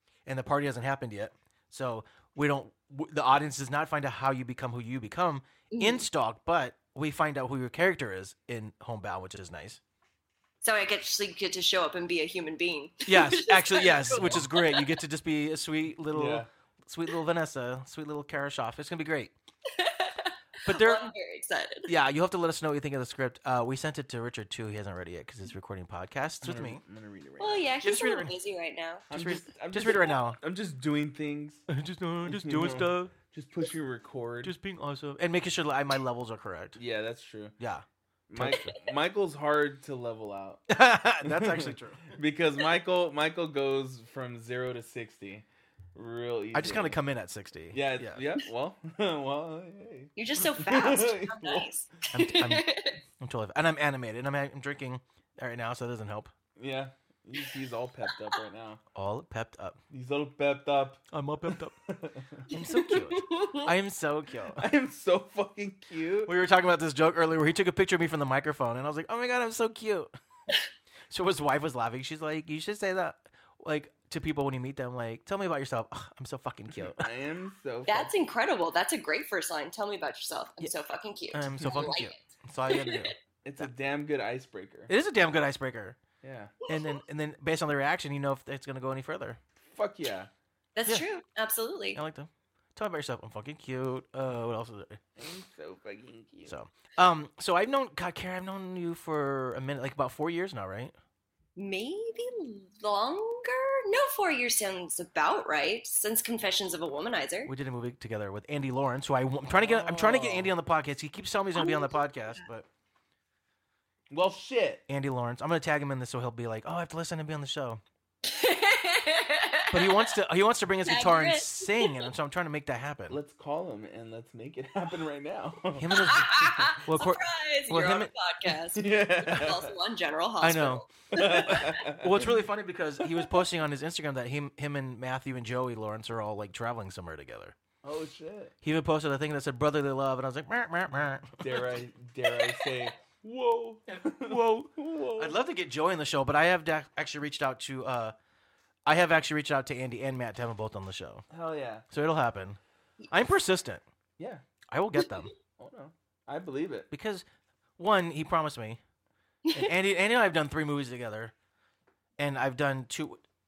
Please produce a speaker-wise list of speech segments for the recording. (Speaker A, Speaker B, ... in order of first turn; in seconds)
Speaker A: 0.3-9.8, 13.1-19.3, 20.7-21.0, 21.9-26.8, 27.8-28.4, 29.1-30.4, 31.7-33.1, 34.4-36.8, 37.6-38.7, 40.7-42.1, 46.5-48.2, 52.1-52.7, 53.2-56.3, 58.9-59.8, 61.1-61.8, 62.5-64.7, 66.3-70.1, 71.1-77.1, 81.3-83.7, 84.9-86.0, 86.7-89.4, 92.0-95.0, 96.5-100.9, 107.5-112.7, 114.9-117.8, 119.7-123.2, 125.8-128.1, 130.4-137.6, 138.6-141.6, 143.9-148.2, 148.9-151.2, 151.9-152.6, 153.1-153.8, 154.7-155.3, 156.9-157.3, 157.8-158.8, 159.5-161.3, 162.2-163.2
Speaker B: 5.7-6.1, 10.6-15.0, 19.7-21.9, 27.4-29.1, 50.2-53.0, 62.5-63.7, 77.9-83.1, 86.6-87.0, 90.8-92.0, 101.6-107.5, 111.5-112.4, 118.2-120.2, 120.8-122.1, 125.9-131.8, 159.5-159.7
Speaker C: 14.1-14.4, 16.1-16.5, 26.4-27.7, 29.1-31.7, 32.2-34.5, 36.8-37.6, 38.3-40.7, 41.2-47.0, 47.7-51.7, 56.6-58.8, 59.9-62.5, 64.5-66.3, 76.9-78.1, 83.4-84.9, 86.2-86.5, 89.7-90.3, 95.2-96.6, 109.5-110.5, 114.1-114.8, 123.1-126.5, 128.7-129.7, 131.1-132.3, 137.8-138.5, 141.4-145.4, 151.3-151.8, 155.6-156.9